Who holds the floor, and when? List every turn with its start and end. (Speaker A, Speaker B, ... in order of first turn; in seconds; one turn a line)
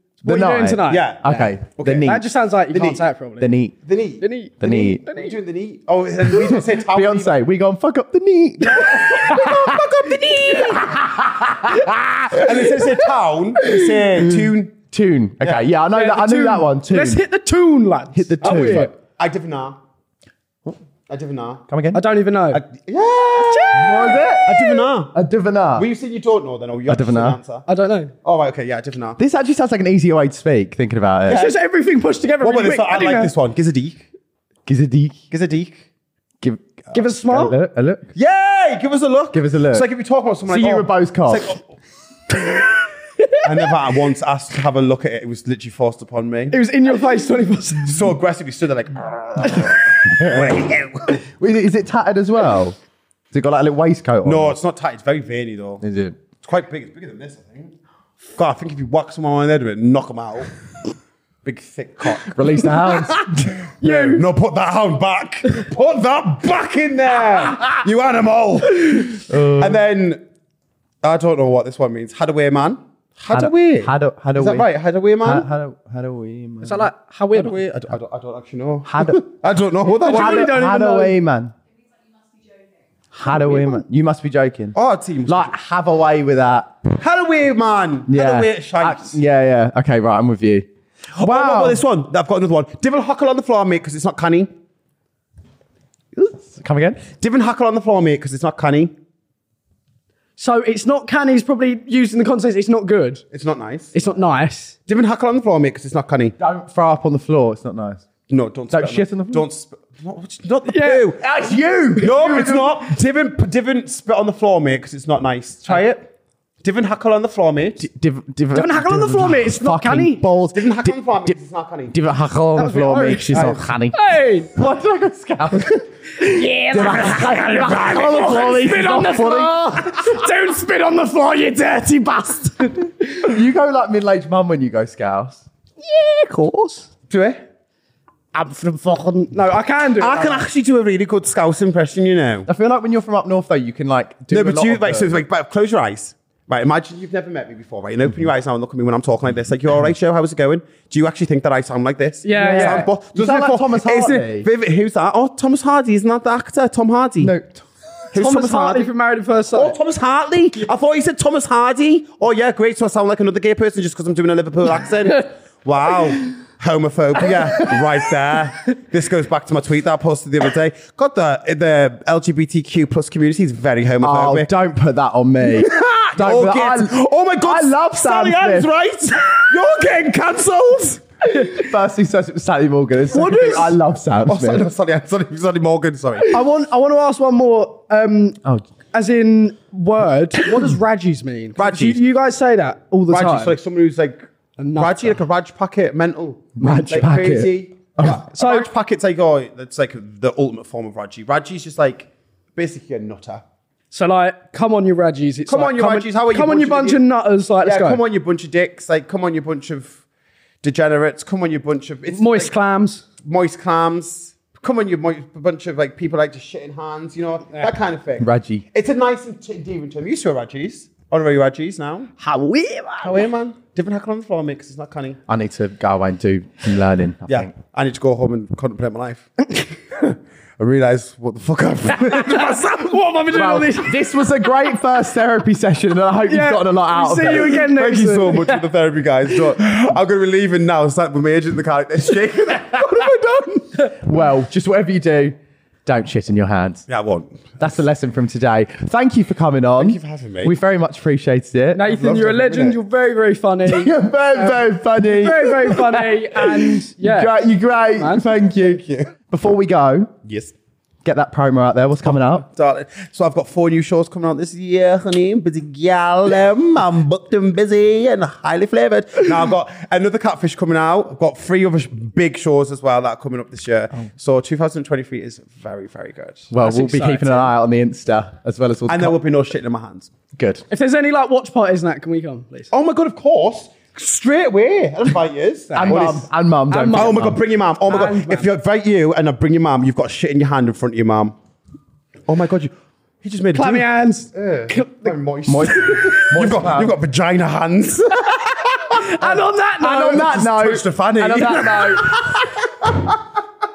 Speaker A: 0.2-1.5
Speaker B: 0.2-2.2
Speaker C: 0.8-3.0
Speaker A: 2.0-3.5
Speaker B: 3.4-3.7
Speaker C: 3.8-4.2
Speaker A: 4.2-5.3
Speaker B: 4.6-5.0
Speaker C: 5.0-7.3
Speaker B: 6.3-9.9
Speaker C: 8.6-11.0
Speaker B: 10.5-13.0
Speaker C: 12.3-14.7
Speaker B: 13.7-17.2
Speaker C: 15.4-15.6
Speaker A: 15.9-18.9
Speaker B: 18.1-18.9
Speaker C: 18.4-19.8
Speaker C: 21.1-21.6
Speaker B: 21.7-22.0
Speaker A: 21.9-22.6
Speaker C: 22.5-25.1
Speaker A: 23.3-24.8
Speaker B: 23.7-24.6
Speaker B: 25.1-25.9
Speaker C: 25.8-27.6
Speaker B: 26.9-27.4
Speaker A: 27.7-28.1
Speaker C: 28.2-29.2
Speaker B: 29.2-31.4
Speaker C: 31.3-31.6
Speaker A: 31.3-33.3
Speaker C: 32.4-34.0
Speaker B: 34.6-35.2
Speaker C: 35.3-35.8
Speaker B: 36.4-38.1
Speaker A: 36.9-37.5
Speaker C: 38.1-41.6
Speaker B: 39.3-39.9
Speaker B: 40.5-41.5
Speaker C: 43.4-46.6
Speaker A: 46.5-48.1
Speaker C: 47.8-51.2
Speaker B: 50.0-50.6
Speaker B: 51.3-52.8
Speaker B: 53.3-54.6
Speaker C: 54.2-55.8
Speaker B: 55.8-56.2
Speaker C: 56.4-57.7
Speaker C: 58.3-60.5
Speaker C: 61.4-70.2
Speaker B: 62.2-63.5
Speaker A: 63.8-64.2
Speaker B: 69.3-69.8
Speaker C: 71.0-75.5
Speaker B: 73.3-74.7
Speaker B: 75.2-76.9
Speaker A: 76.6-77.6
Speaker C: 77.3-80.5
Speaker B: 78.8-79.2
Speaker A: 80.0-81.2
Speaker B: 80.0-81.5
Speaker B: 83.1-84.8
Speaker A: 83.3-83.8
Speaker C: 84.7-85.5
Speaker B: 85.3-86.8
Speaker C: 86.9-89.2
Speaker B: 88.1-91.8
Speaker C: 91.2-94.5
Speaker B: 96.1-97.0
Speaker C: 97.2-98.9
Speaker A: 100.4-103.2
Speaker C: 103.3-103.9
Speaker A: 103.9-104.8
Speaker C: 104.9-106.3
Speaker B: 106.4-108.0
Speaker C: 108.3-111.2
Speaker B: 108.7-109.5
Speaker A: 110.7-111.1
Speaker B: 111.2-112.9
Speaker C: 111.9-116.1
Speaker C: 116.6-117.9
Speaker B: 117.8-121.4
Speaker A: 118.5-120.3
Speaker C: 120.5-122.0
Speaker B: 121.9-124.0
Speaker A: 122.5-124.5
Speaker B: 124.5-130.2
Speaker A: 126.2-133.2
Speaker B: 133.2-135.4
Speaker A: 135.8-136.8
Speaker C: 137.1-137.4
Speaker A: 138.3-140.5
Speaker C: 140.0-142.5
Speaker B: 142.5-145.1
Speaker C: 144.3-157.3
Speaker A: 152.2-152.9
Speaker B: 152.3-154.5
Speaker B: 157.2-157.6
Speaker C: 158.1-158.9
Speaker A: 158.1-159.8
Speaker C: 159.5-174.5
Speaker B: 174.0-178.7
Speaker C: 175.5-181.0
Speaker B: 181.3-184.6
Speaker A: 183.1-183.8
Speaker C: 184.2-186.4
Speaker A: 186.2-188.4
Speaker A: 188.9-193.6
Speaker C: 191.6-192.0
Speaker C: 193.1-194.2
Speaker A: 194.6-195.2
Speaker C: 194.8-203.4
Speaker B: 196.6-198.2
Speaker A: 198.1-198.7
Speaker A: 203.9-208.0
Speaker C: 205.4-207.0
Speaker C: 207.6-210.0
Speaker C: 210.6-212.5
Speaker A: 212.1-213.0
Speaker C: 213.2-222.1
Speaker B: 218.2-218.6
Speaker A: 222.2-223.2
Speaker C: 223.0-225.2
Speaker B: 225.3-227.5
Speaker C: 227.3-229.3
Speaker C: 229.9-233.0
Speaker A: 232.1-234.1
Speaker B: 233.3-237.7
Speaker A: 236.3-238.6
Speaker C: 237.2-243.7
Speaker B: 243.9-246.8
Speaker C: 246.9-247.6
Speaker B: 247.6-251.8
Speaker C: 249.8-250.5
Speaker A: 251.7-258.3
Speaker C: 251.8-252.8
Speaker B: 253.7-260.1
Speaker C: 258.6-259.1
Speaker C: 260.2-260.5
Speaker B: 261.0-262.4
Speaker C: 262.1-276.5
Speaker B: 276.5-279.1
Speaker A: 276.6-277.5
Speaker C: 278.9-280.1
Speaker B: 280.4-280.6
Speaker A: 280.7-282.7
Speaker C: 282.7-286.3
Speaker A: 285.7-286.2
Speaker B: 285.8-287.4
Speaker A: 286.7-287.3
Speaker C: 286.9-291.3
Speaker A: 287.9-288.5
Speaker C: 292.3-303.2
Speaker A: 293.5-295.1
Speaker B: 295.5-296.9
Speaker A: 298.9-300.3
Speaker B: 299.8-302.2